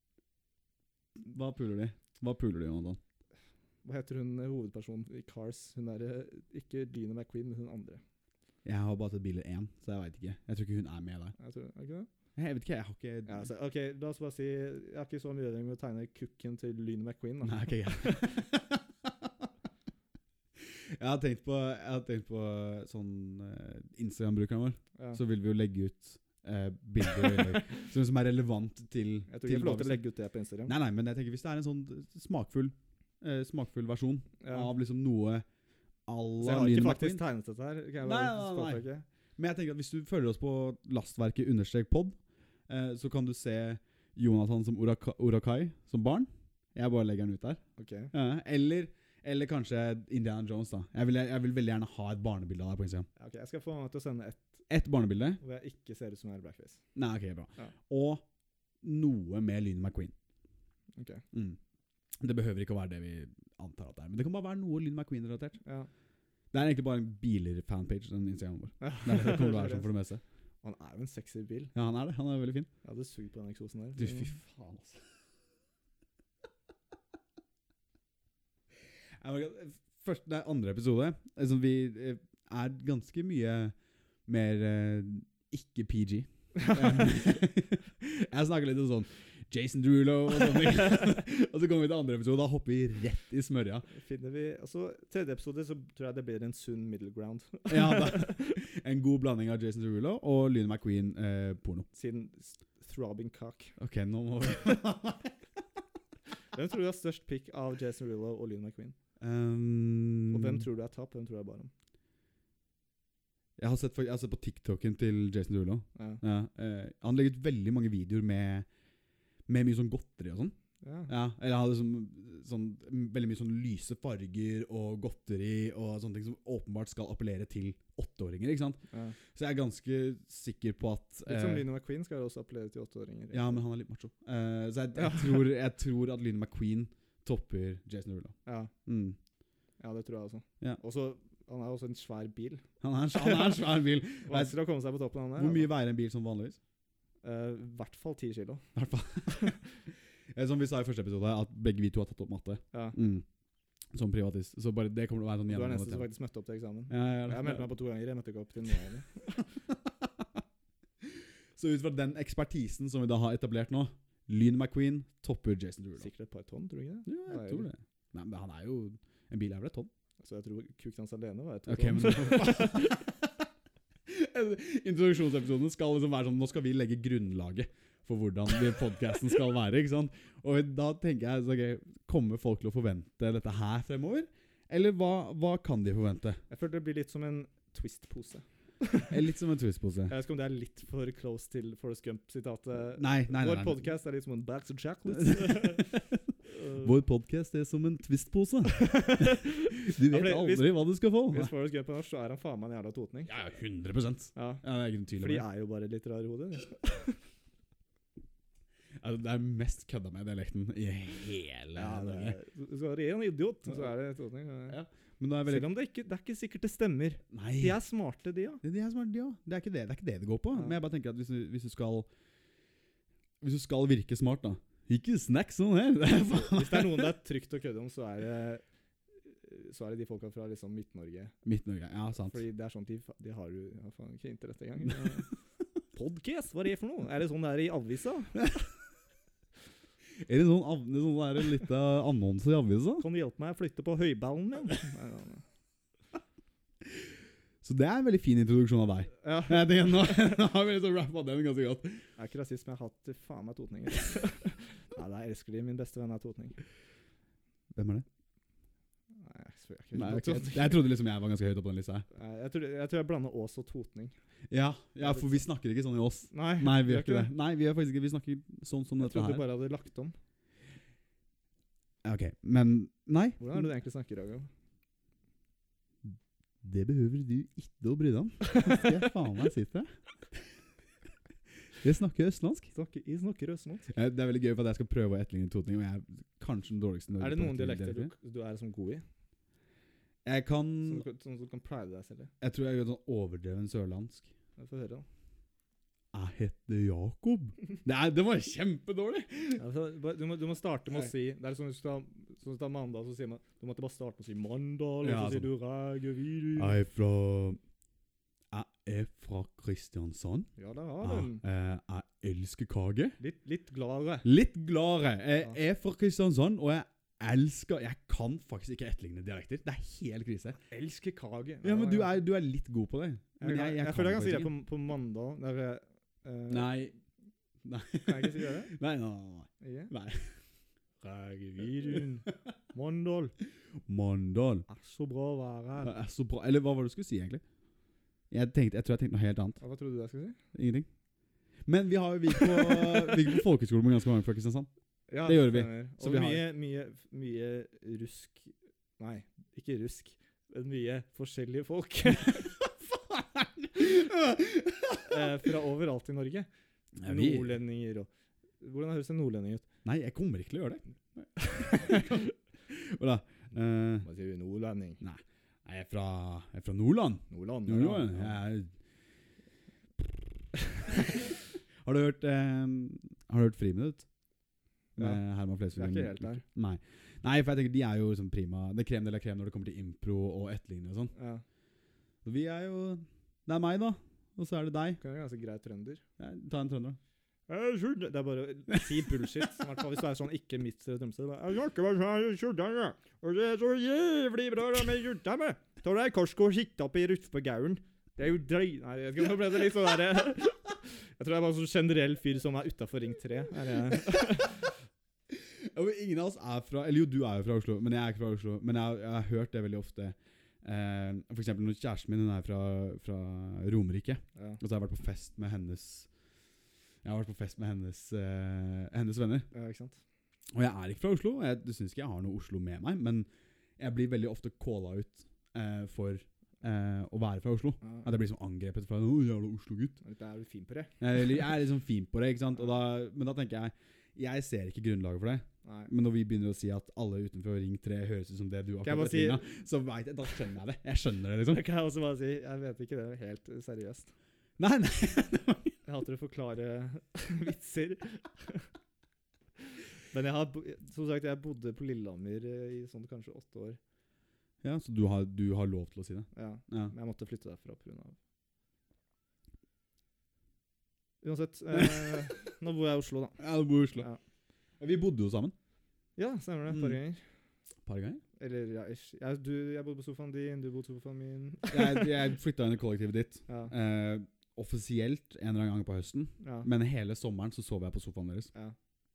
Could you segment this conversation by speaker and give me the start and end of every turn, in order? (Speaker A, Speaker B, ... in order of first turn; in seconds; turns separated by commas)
Speaker A: 1.2-3.0, Speaker B: 3.8-8.0, Speaker A: 8.7-11.3, Speaker B: 11.4-12.1, Speaker A: 12.4-13.5, Speaker B: 13.3-18.4, Speaker A: 17.4-19.1, Speaker A: 20.6-30.0, Speaker B: 29.3-30.7, Speaker A: 30.7-35.5, Speaker B: 34.4-34.7, Speaker A: 36.1-37.2, Speaker B: 36.4-39.1, Speaker A: 38.0-38.8, Speaker A: 39.4-42.2, Speaker A: 42.7-47.6, Speaker B: 47.8-48.1, Speaker A: 48.1-53.1, Speaker B: 53.2-54.6, Speaker A: 54.7-55.4, Speaker B: 55.4-56.8, Speaker A: 57.0-58.2, Speaker A: 58.8-60.1, Speaker B: 60.9-61.2, Speaker A: 61.3-61.6, Speaker A: 62.2-65.6, Speaker B: 65.7-65.9, Speaker A: 66.5-70.2, Speaker B: 68.8-69.9, Speaker B: 70.6-71.7, Speaker A: 71.8-72.7, Speaker B: 72.8-74.3, Speaker A: 74.0-75.0, Speaker A: 79.2-83.8, Speaker A: 84.3-93.9, Speaker B: 86.8-87.0, Speaker B: 93.9-98.6, Speaker A: 97.7-101.9, Speaker B: 101.9-103.8, Speaker A: 103.8-105.3, Speaker B: 106.5-109.0, Speaker A: 109.2-110.7, Speaker B: 110.3-111.7, Speaker A: 113.6-118.7, Speaker B: 116.0-116.2, Speaker A: 119.5-120.5, Speaker B: 120.8-121.1, Speaker A: 121.1-131.7, Speaker B: 131.3-133.6, Speaker A: 133.3-139.2, Speaker B: 134.9-135.5, Speaker B: 138.5-138.7, Speaker B: 139.8-143.7, Speaker A: 142.8-144.6, Speaker B: 144.2-145.7, Speaker A: 145.4-146.6, Speaker B: 147.2-148.7, Speaker A: 148.8-149.6, Speaker B: 149.3-149.6, Speaker A: 150.3-153.2, Speaker A: 153.9-156.1, Speaker B: 155.5-159.5, Speaker A: 156.9-157.7, Speaker A: 161.6-166.1, Speaker B: 166.0-167.7, Speaker A: 167.1-169.9, Speaker B: 170.2-173.0, Speaker A: 171.7-173.2, Speaker A: 174.1-186.4, Speaker B: 186.5-189.1, Speaker A: 189.1-190.2, Speaker B: 190.1-195.9, Speaker A: 193.0-193.8, Speaker A: 195.2-196.1, Speaker B: 196.5-196.9, Speaker A: 196.6-201.5, Speaker B: 198.7-203.3, Speaker A: 203.3-205.4, Speaker B: 204.3-204.6, Speaker B: 205.2-207.2, Speaker A: 209.0-212.4, Speaker B: 211.8-214.8, Speaker A: 214.7-215.7, Speaker B: 215.5-218.6, Speaker A: 217.3-217.8, Speaker A: 218.6-222.1, Speaker A: 223.4-227.1, Speaker B: 226.3-228.6, Speaker B: 229.2-231.4, Speaker A: 231.4-232.4, Speaker B: 232.1-235.3, Speaker B: 235.9-238.5, Speaker A: 240.2-243.1, Speaker B: 243.0-245.4, Speaker A: 247.6-252.1, Speaker B: 249.2-250.4, Speaker B: 252.2-256.6, Speaker A: 257.8-258.1, Speaker B: 259.2-260.9, Speaker A: 259.9-262.1, Speaker B: 262.1-264.1, Speaker A: 264.5-269.5, Speaker B: 265.0-265.4, Speaker B: 266.3-267.3, Speaker B: 269.0-270.2, Speaker A: 272.0-273.6, Speaker B: 273.4-274.5, Speaker A: 276.0-280.5, Speaker A: 281.7-282.7, Speaker B: 282.7-283.9, Speaker A: 283.9-288.1, Speaker B: 287.1-289.0, Speaker A: 290.2-291.1, Speaker B: 290.9-292.3, Speaker A: 292.4-294.3, Speaker B: 294.6-295.1, Speaker A: 296.1-299.6, Speaker B: 299.6-306.8, Speaker A: 305.0-305.5, Speaker A: 306.6-307.6, Speaker A: 308.5-313.2, Speaker B: 310.6-311.4, Speaker B: 313.2-314.3, Speaker A: 314.2-320.6, Speaker B: 320.7-322.1, Speaker A: 321.6-324.5, Speaker B: 323.4-326.7, Speaker A: 326.5-327.0, Speaker A: 327.6-330.4, Speaker B: 328.1-328.7, Speaker B: 329.6-329.9, Speaker B: 331.0-333.3, Speaker A: 333.9-334.7, Speaker B: 334.7-335.9, Speaker A: 335.8-337.4, Speaker A: 338.3-339.6, Speaker B: 339.6-340.4, Speaker A: 340.5-340.9, Speaker A: 341.7-344.7, Speaker B: 342.4-343.1, Speaker B: 345.1-352.6, Speaker A: 345.2-346.5, Speaker A: 352.6-355.3, Speaker B: 355.1-356.5, Speaker A: 357.0-357.5, Speaker B: 357.0-358.1, Speaker B: 358.6-359.7, Speaker A: 359.9-364.1, Speaker B: 361.5-362.3, Speaker B: 364.0-365.0, Speaker A: 365.0-368.7, Speaker B: 367.3-368.4, Speaker A: 370.9-371.3, Speaker A: 371.8-374.1, Speaker A: 375.0-381.1, Speaker B: 375.7-376.4, Speaker B: 381.1-381.4, Speaker A: 382.2-385.0, Speaker B: 385.0-386.0, Speaker A: 386.2-387.0, Speaker B: 387.5-404.8, Speaker A: 405.3-416.1, Speaker A: 417.0-419.5, Speaker B: 419.5-420.0, Speaker A: 420.6-423.3, Speaker A: 423.8-430.0, Speaker B: 427.8-428.1, Speaker B: 430.0-430.9, Speaker A: 431.0-441.6, Speaker B: 435.6-435.9, Speaker B: 438.8-439.5, Speaker B: 441.5-444.1, Speaker A: 444.6-445.7, Speaker B: 445.9-448.7, Speaker B: 449.6-453.8, Speaker A: 454.6-456.9, Speaker B: 456.3-458.2, Speaker B: 461.2-463.4, Speaker A: 463.4-464.1, Speaker A: 464.8-465.5, Speaker B: 466.2-467.2, Speaker A: 467.9-468.2, Speaker B: 468.4-472.1, Speaker A: 471.7-478.5, Speaker B: 473.5-473.7, Speaker B: 476.4-476.7